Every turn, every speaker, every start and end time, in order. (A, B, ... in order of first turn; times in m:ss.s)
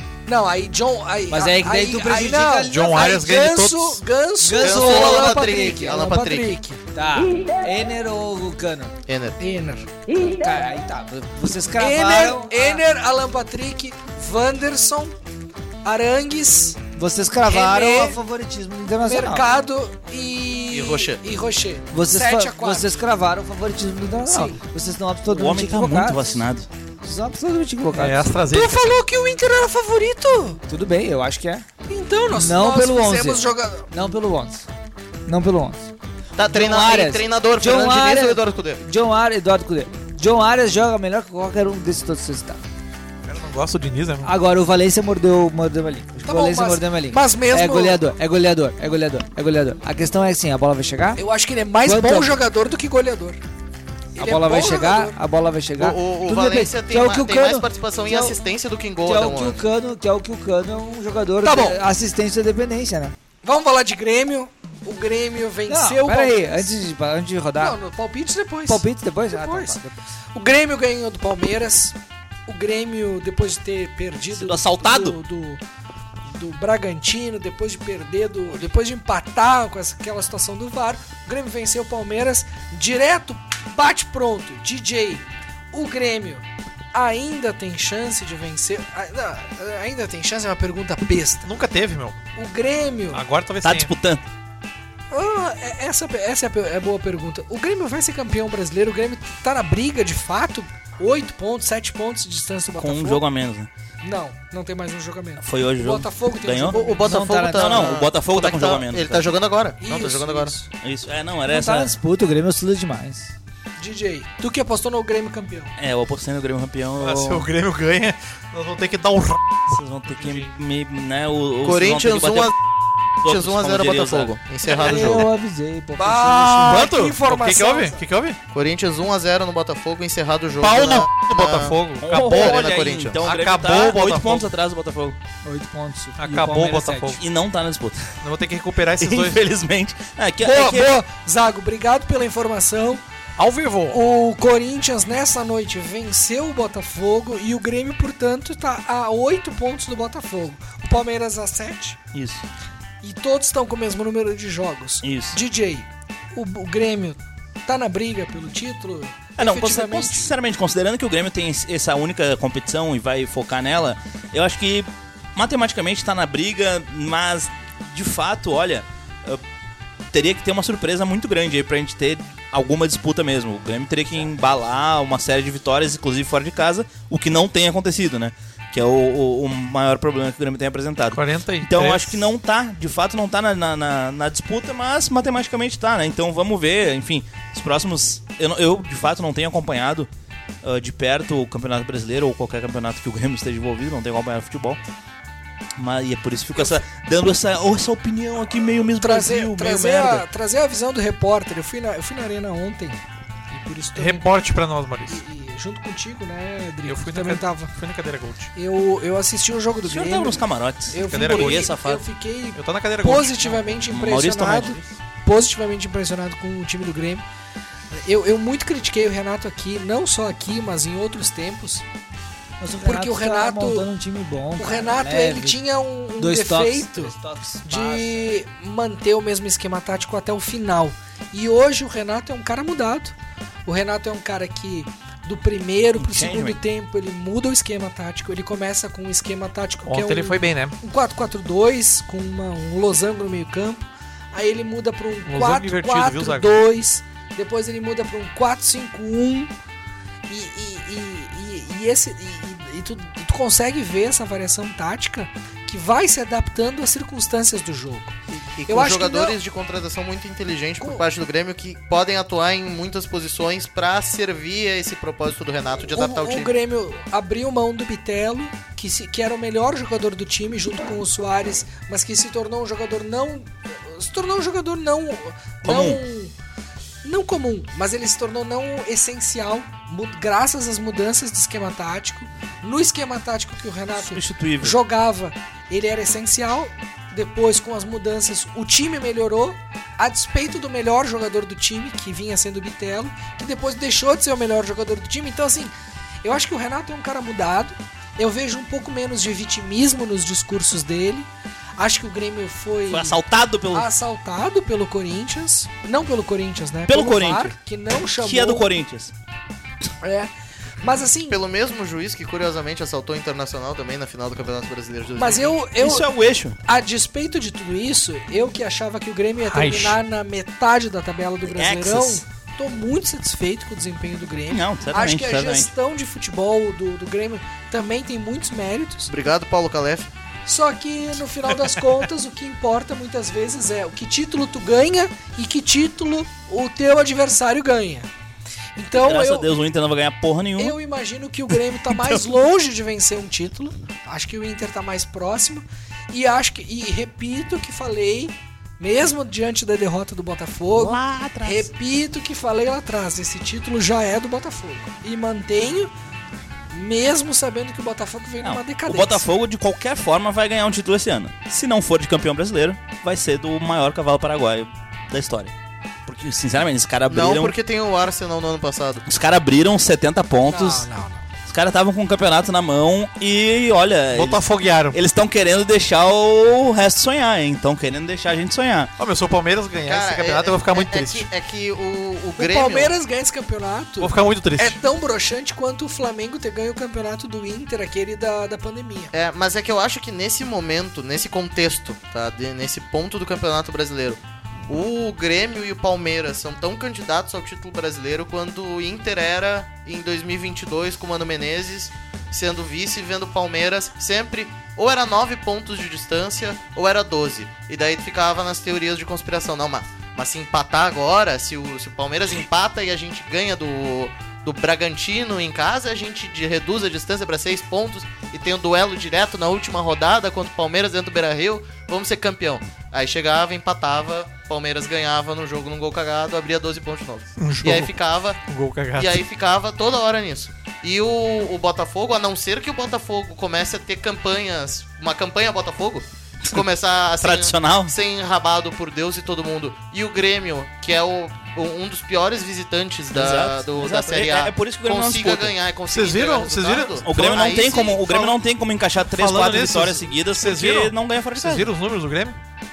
0:00.2-0:06.8 A
0:01.3-0:03.0 B
0:02.7-0:04.0 C
0:04.4-0:06.0 B
0:04.6-0:06.6 D
0:06.9-0:08.9 B
0:09.1-0:09.4 D
0:09.4-0:09.9 A
0:10.1-0:12.8 B
0:11.8-0:15.1 A
0:15.8-0:16.8 A
0:17.0-0:19.4 B
0:17.4-0:18.2 A
0:19.0-0:23.0 A
0:20.7-0:21.2 D
0:21.9-0:26.4 B
0:24.2-0:24.6 A
0:25.3-0:26.7 E
0:27.0-0:28.3 B
0:27.9-0:29.0 C
0:28.5-0:30.6 A
0:30.7-0:31.6 B
0:31.9-0:33.8 A
0:32.3-0:34.7 B
0:35.3-0:35.9 B
0:36.4-0:38.8 D
0:36.5-0:42.6 B
0:43.2-0:44.3 C
0:44.2-0:51.2 B
0:46.2-0:48.0 A
0:51.2-0:53.4 A
0:51.8-0:52.4 B
0:54.2-0:55.2 A
0:54.2-0:58.4 B
0:55.8-0:59.6 D
0:59.0-1:03.1 B
1:01.4-1:01.8 A
1:03.4-1:06.7 A
1:05.7-1:07.8 B
1:07.6-1:09.8 A
1:08.7-1:10.0 B
1:10.3-1:12.0 A
1:12.5-1:15.6 A
1:14.3-1:15.2 E
1:16.3-1:31.5 A
1:31.4-1:32.2 C
1:32.4-1:33.2 A
1:33.1-1:33.9 C
1:33.6-1:34.2 E
1:35.1-1:43.2 A
1:42.8-1:43.7 E
1:44.0-1:47.1 A
1:45.4-1:46.8 E
1:46.7-1:50.5 D
1:47.0-1:47.9 B
1:47.4-1:49.3 E
1:49.8-1:50.7 A
1:50.8-1:51.9 E
1:51.5-1:53.3 B
1:53.8-1:55.7 A
1:55.8-1:57.5 E
1:57.0-2:00.5 C
1:59.7-2:02.5 E
2:01.6-2:02.5 D
2:03.2-2:04.3 E
2:03.2-2:05.3 D
2:04.7-2:06.9 B
2:06.0-2:08.0 A
2:06.6-2:08.4 C
2:08.5-2:13.2 D
2:10.6-2:12.7 C
2:12.0-2:15.2 E
2:13.2-2:14.5 C
2:15.4-2:17.2 B
2:16.2-2:17.2 C
2:17.2-2:18.0 E
2:18.2-2:19.4 C
2:19.0-2:21.0 E
2:20.4-2:23.0 A
2:23.4-2:24.0 C
2:23.9-2:32.0 A
2:32.1-2:32.4 E
2:33.0-2:40.3 A
2:35.0-2:35.4 E
2:39.4-2:49.4 E
2:50.1-3:10.1 E
3:01.1-3:02.3 C
3:10.6-3:14.8 E
3:15.8-3:20.2 E
3:19.0-3:24.3 A
3:23.9-3:25.2 C
3:25.1-3:27.7 A
3:26.8-3:28.5 C
3:28.6-3:37.2 A
3:29.8-3:31.8 E
3:31.0-3:32.0 C
3:32.5-3:33.8 C
3:33.9-3:34.8 E
3:37.9-3:41.8 A
3:42.6-3:45.6 B
3:42.8-3:43.9 A
3:44.6-3:47.1 A
3:46.2-3:48.4 B
3:47.6-3:53.1 A
3:53.6-4:09.5 A
3:56.0-3:56.6 E
3:59.8-4:00.8 C
4:05.3-4:06.6 C
4:10.3-4:18.1 A
4:18.3-4:26.5 D
4:18.7-4:19.4 A
4:25.9-4:36.3 A
4:35.6-4:36.0 E
4:37.0-4:55.7 A
4:44.0-4:44.8 E
4:56.2-5:03.2 A
5:02.9-5:03.9 E
5:03.7-5:08.6 A
5:06.9-5:07.5 E
5:08.2-5:09.1 E
5:10.0-5:10.3 A
5:10.8-5:11.4 A
5:11.3-5:15.6 D
5:15.2-5:16.1 A
5:15.8-5:16.6 E
5:16.6-5:29.1 A
5:19.4-5:20.0 C
5:21.5-5:22.2 E
5:24.5-5:25.7 E
5:29.1-5:30.1 D
5:30.4-5:38.1 A
5:38.8-5:39.5 A
5:38.9-5:40.8 E
5:40.6-5:55.9 A
5:41.9-5:42.2 E
5:50.7-5:51.7 E
5:56.7-5:59.2 A
5:58.4-6:05.5 E
6:06.0-6:07.6 E
6:07.1-6:09.0 D
6:09.0-6:10.9 E
6:10.4-6:11.2 A
6:11.5-6:18.9 E
6:14.1-6:15.0 C
6:19.0-6:21.3 C
6:19.9-6:22.9 D
6:22.4-6:29.1 A
6:24.0-6:24.8 C
6:29.1-7:08.4 D
7:07.4-7:07.9 C
7:08.5-7:09.2 C
7:08.9-7:28.4 D
7:17.2-7:17.9 E
7:23.1-7:25.6 E
7:25.9-7:27.3 C
7:27.0-7:31.7 E
7:29.1-7:32.4 C